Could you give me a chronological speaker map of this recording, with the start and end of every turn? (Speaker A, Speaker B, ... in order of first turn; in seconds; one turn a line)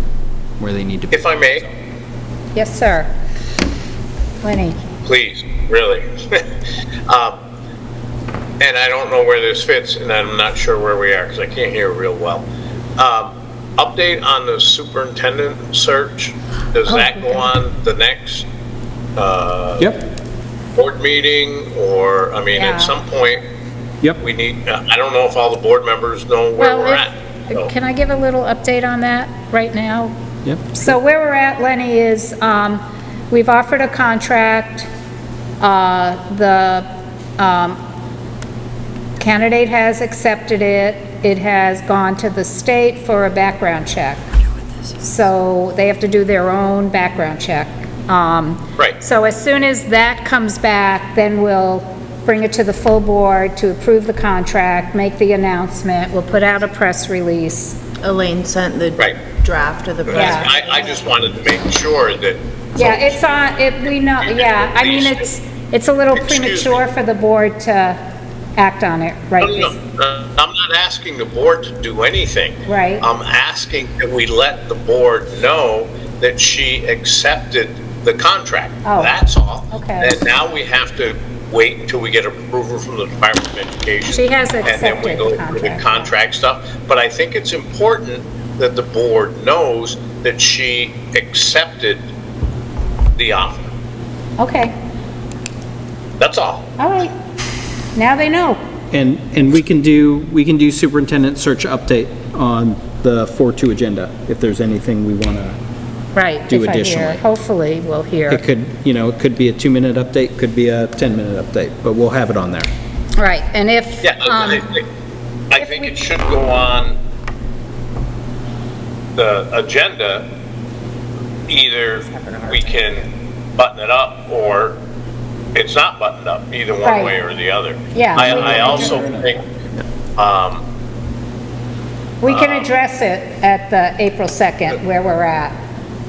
Speaker A: 0.6-1.2
Speaker B: 1.1-1.6
Speaker C: 2.5-3.1
Speaker C: 4.4-4.8
Speaker B: 5.0-6.5
Speaker B: 7.1-7.4
Speaker B: 8.6-12.4
Speaker B: 13.0-18.4
Speaker C: 16.9-17.5
Speaker B: 19.1-19.9
Speaker A: 19.8-20.1
Speaker B: 20.8-23.4
Speaker C: 22.5-23.0
Speaker B: 24.2-27.7
Speaker C: 26.6-30.1
Speaker C: 30.7-34.9
Speaker C: 35.6-37.8
Speaker C: 39.2-44.2
Speaker C: 45.0-57.8
Speaker D: 58.0-60.8
Speaker B: 59.0-59.2
Speaker B: 60.1-63.4
Speaker C: 60.1-60.8
Speaker C: 62.8-68.0
Speaker B: 64.2-65.2
Speaker B: 66.1-66.8
Speaker C: 68.5-69.7
Speaker B: 69.4-92.1
Speaker C: 72.7-73.1
Speaker C: 78.8-79.2
Speaker C: 79.7-80.2
Speaker C: 84.0-86.1
Speaker B: 93.2-93.7
Speaker C: 94.4-94.7
Speaker B: 96.2-96.6
Speaker C: 96.8-97.1
Speaker C: 97.9-98.6
Speaker A: 98.9-105.6
Speaker C: 106.1-108.4
Speaker A: 106.5-107.2
Speaker A: 108.3-112.7
Speaker C: 113.2-114.8
Speaker B: 114.0-114.8
Speaker B: 115.5-117.0
Speaker C: 115.5-116.0
Speaker B: 119.2-120.3
Speaker B: 121.5-124.8
Speaker B: 125.5-129.4
Speaker C: 126.8-127.2
Speaker C: 127.9-129.0
Speaker A: 128.2-129.3
Speaker B: 130.2-130.6
Speaker C: 132.2-135.6
Speaker B: 132.2-132.7